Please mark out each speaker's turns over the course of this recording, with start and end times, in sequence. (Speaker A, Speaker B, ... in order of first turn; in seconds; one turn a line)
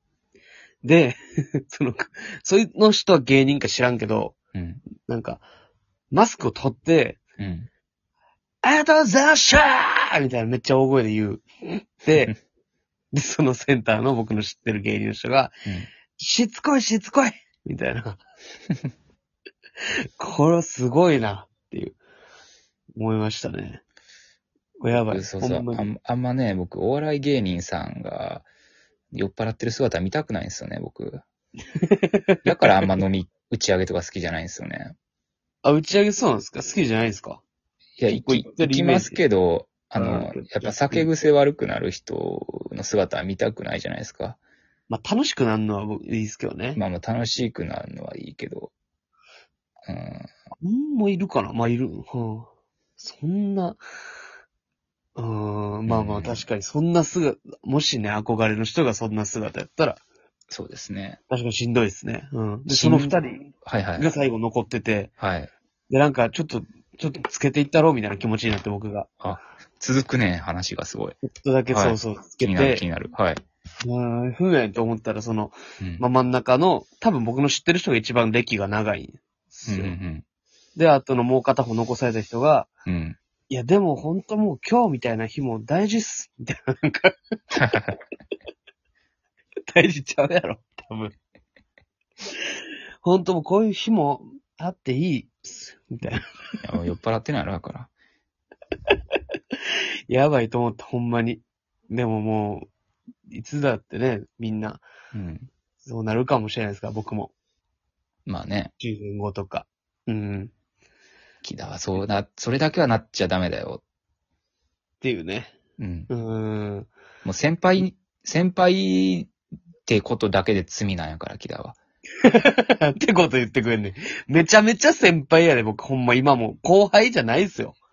Speaker A: 0.8-4.3
Speaker B: 4.5-4.8
Speaker A: 5.1-5.4
Speaker A: 6.1-7.2
Speaker B: 7.4-7.7
Speaker A: 8.6-12.3
Speaker A: 13.1-15.5
Speaker A: 16.1-18.2
Speaker A: 20.2-22.0
Speaker A: 23.0-23.8
Speaker A: 24.8-25.9
Speaker B: 24.9-28.5
Speaker B: 29.1-31.2
Speaker A: 31.7-32.5
Speaker B: 32.5-34.9
Speaker A: 35.6-37.4
Speaker B: 38.0-44.4
Speaker A: 38.1-39.2
Speaker A: 40.0-41.1
Speaker A: 44.9-46.8
Speaker B: 46.8-48.7
Speaker B: 49.8-50.3
Speaker A: 50.6-53.8
Speaker A: 55.1-60.0
Speaker B: 55.9-56.4
Speaker B: 60.5-61.2
Speaker A: 61.3-65.1
Speaker B: 62.7-64.1
Speaker B: 65.2-65.5
Speaker A: 65.9-69.1
Speaker B: 69.2-71.2
Speaker A: 71.2-72.8
Speaker B: 71.7-73.4
Speaker A: 73.8-79.9
Speaker B: 79.7-80.2
Speaker A: 80.8-82.7
Speaker B: 82.8-83.2
Speaker A: 83.5-87.4
Speaker B: 87.5-87.9
Speaker A: 89.7-91.1
Speaker A: 93.0-96.2
Speaker B: 96.6-97.9
Speaker A: 100.1-102.7
Speaker A: 103.3-104.8
Speaker B: 105.1-105.5
Speaker A: 105.8-107.3
Speaker B: 108.2-108.7
Speaker A: 108.8-110.5
Speaker B: 111.4-113.8
Speaker A: 115.0-115.5
Speaker B: 115.8-116.1
Speaker A: 116.1-116.9
Speaker B: 117.2-119.3
Speaker B: 119.8-121.8
Speaker A: 122.2-127.8